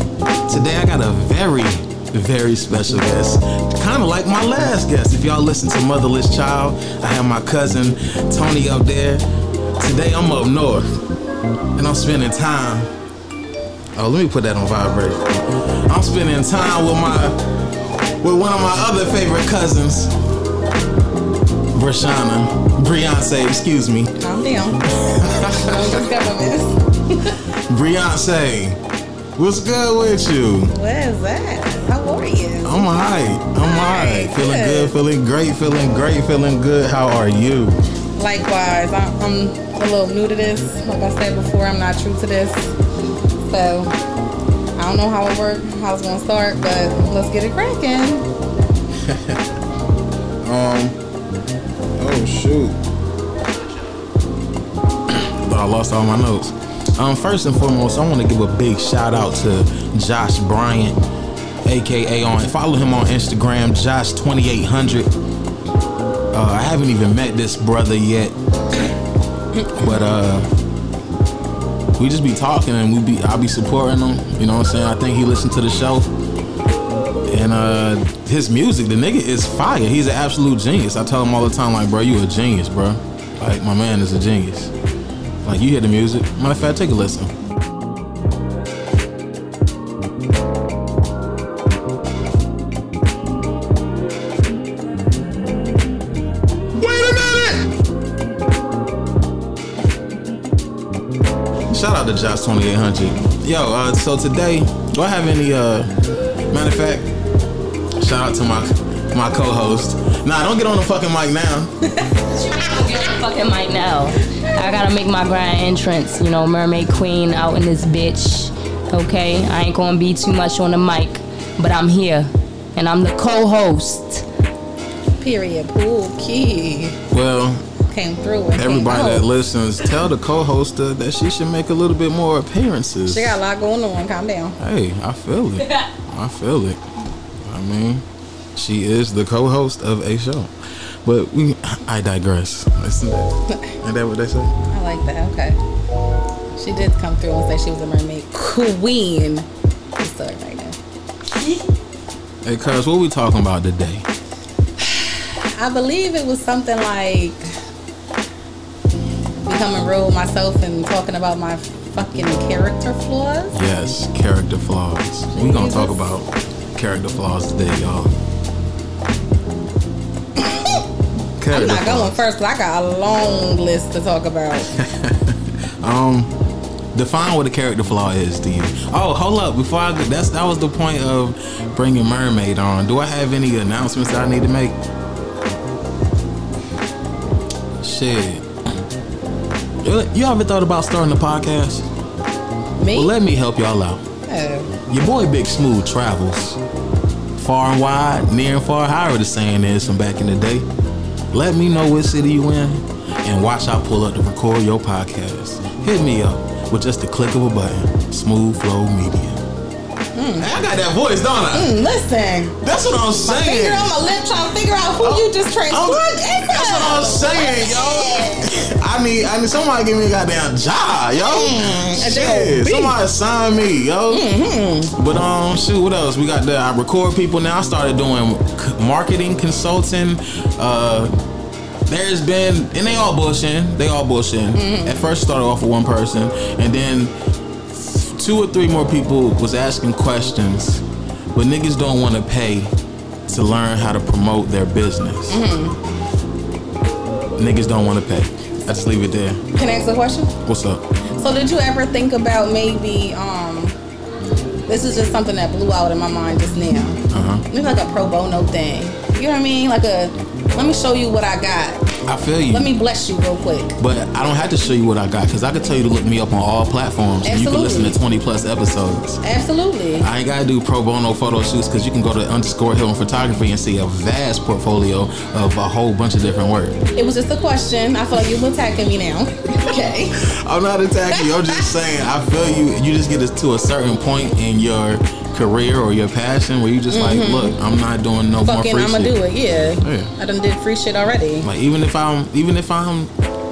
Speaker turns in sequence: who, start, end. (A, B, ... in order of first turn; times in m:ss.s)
0:00.5-0:09.2 A
0:09.8-0:10.9 A
0:11.8-0:12.9 A
0:13.9-0:17.5 A
0:18.2-0:20.1 A
0:21.7-0:24.2 A
0:24.2-0:27.4 B
0:25.0-0:26.0 A
0:27.7-0:28.8 A
0:29.4-0:30.7 A
0:30.7-0:32.8 B
0:32.6-0:37.8 A
0:33.6-0:34.9 B
0:38.2-0:42.7 B
0:43.5-0:43.9 B
0:44.8-0:48.2 B
0:49.0-0:49.5 A
0:50.4-0:51.0 A
0:52.0-0:52.8 A
0:55.1-1:01.0 A
1:01.6-1:05.1 A
1:06.3-1:08.3 A
1:09.7-1:10.5 A
1:12.0-1:16.1 A
1:17.2-1:24.7 A
1:25.4-1:27.3 A
1:36.8-1:37.7 A
1:41.7-1:45.9 A
1:46.5-1:47.1 A
1:48.0-1:51.7 A
1:52.3-2:04.2 C
2:05.2-2:07.0 B
2:07.1-2:07.6 A
2:07.9-2:09.2 B
2:08.5-2:13.4 A
2:13.1-2:14.6 B
2:14.6-2:16.8 A
2:17.4-2:20.5 A
2:21.0-2:24.5 A
2:24.7-2:25.6 B
2:26.6-2:29.5 B
2:30.0-2:30.8 B
2:32.4-2:34.0 A
2:34.8-2:37.4 B
2:39.4-2:43.5 B
2:43.5-2:48.1 A
2:45.3-2:46.0 B
2:50.4-2:50.8 B
2:51.4-2:52.2 A
2:51.5-2:54.7 B
2:54.7-2:56.3 A
2:56.9-3:04.8 A
3:07.8-3:08.4 A
3:09.8-3:11.8 A
3:12.8-3:13.1 B
3:12.9-3:14.0 A
3:14.3-3:14.7 B
3:14.9-3:16.6 A
3:17.4-3:20.6 A
3:21.3-3:29.4 A
3:30.1-3:30.5 B
3:30.4-3:31.8 A
3:31.5-3:32.6 B
3:32.6-3:33.9 A
3:33.2-3:38.6 B
3:35.0-3:44.2 A
3:41.1-3:43.0 B
3:44.1-3:44.9 B
3:44.9-3:51.1 A
3:51.9-3:57.1 A
3:54.5-3:55.0 B
3:57.7-4:02.7 A
4:03.3-4:05.4 A
4:05.3-4:05.8 B
4:07.4-4:09.4 A
4:09.5-4:10.3 B
4:10.4-4:10.8 A
4:11.2-4:13.7 B
4:14.7-4:21.8 B
4:17.1-4:17.4 A
4:22.0-4:22.7 A
4:22.5-4:23.8 B
4:23.8-4:29.2 A
4:27.2-4:28.0 B
4:29.2-4:30.1 B
4:30.0-4:36.8 A
4:37.0-4:40.2 B
4:40.2-4:49.1 A
4:41.1-4:41.6 B
4:46.9-4:47.5 B
4:48.4-4:51.5 B
4:49.8-4:50.1 A
4:51.4-4:53.1 A